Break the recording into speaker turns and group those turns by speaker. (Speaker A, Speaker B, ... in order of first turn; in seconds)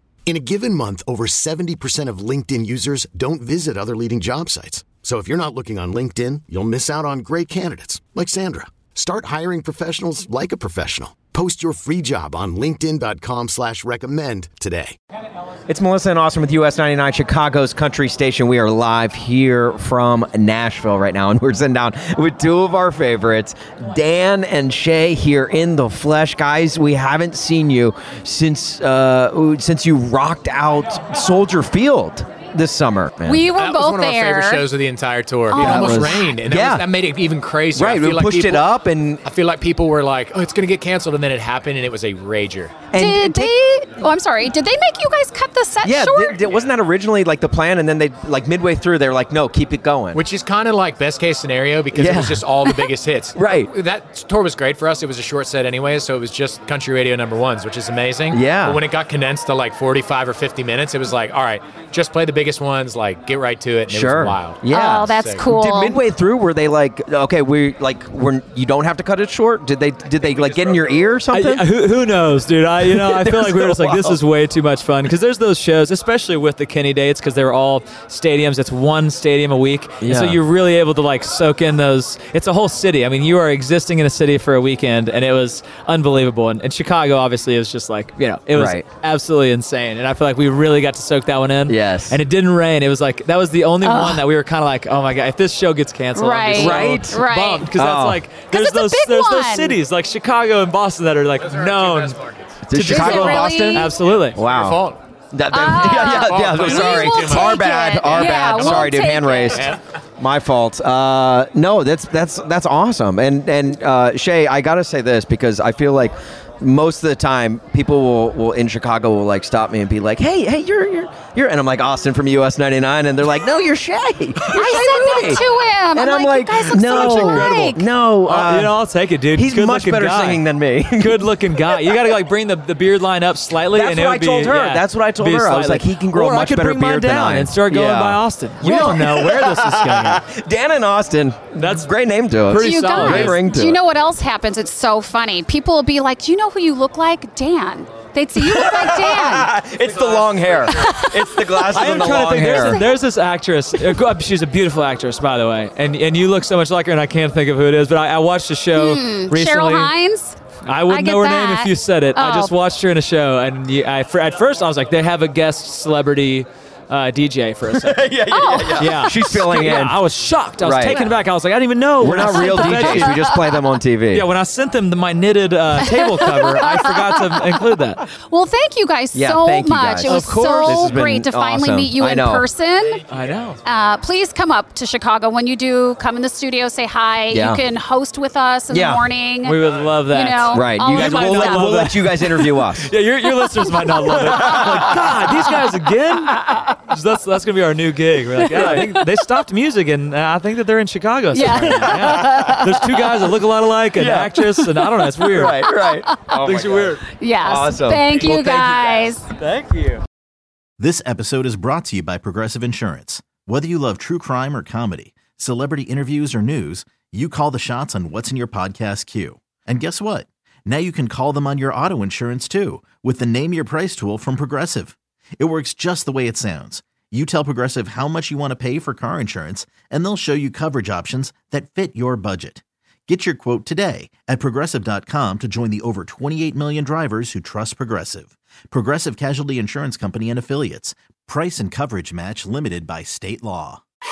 Speaker A: 0.3-15.0
Speaker B: 15.7-33.5, 35.5-36.9, 37.7-39.2, 42.9-43.5, 45.8-50.2, 51.9-52.4, 53.3-53.7, 58.3-58.8, 63.9-71.7, 72.8-74.2, 80.0-80.4, 88.5-88.8, 91.7-92.2, 96.5-97.2, 97.8-98.2, 102.7-128.8, 129.3-132.1, 133.7-143.8, 148.4-152.8, 167.7-170.0, 170.6-171.1, 172.0-174.3, 179.1-182.5, 187.3-187.6, 188.7-189.1, 190.5-192.9, 194.3-195.1, 202.2-202.5, 204.0-208.2
Speaker C: 33.3-34.6, 35.5-36.3, 42.9-46.5, 64.7-66.0, 93.8-94.2, 96.2-97.7, 98.5-99.8, 102.8-104.0, 105.5-109.8, 124.5-127.8, 138.7-138.9, 142.6-149.5, 150.7-152.9, 158.8-160.4, 160.9-162.5, 168.3-168.9, 172.3-173.3, 175.8-177.4, 178.2-183.0, 183.6-191.8, 193.7-194.6, 198.6-199.0, 201.3-202.8, 205.7-206.2, 207.2-209.3
Speaker D: 33.5-38.6, 39.3-42.8, 50.1-65.5, 101.5-102.6, 104.1-105.0, 105.8-108.9, 150.0-150.2
Speaker E: 71.3-104.5, 126.7-140.2, 141.6-141.9, 142.4-143.4, 151.7-159.9, 160.7-173.3, 174.1-178.0, 180.0-180.9, 183.1-183.6, 189.4-205.7, 206.3-207.0, 208.2-210.0
Speaker F: 210.8-243.8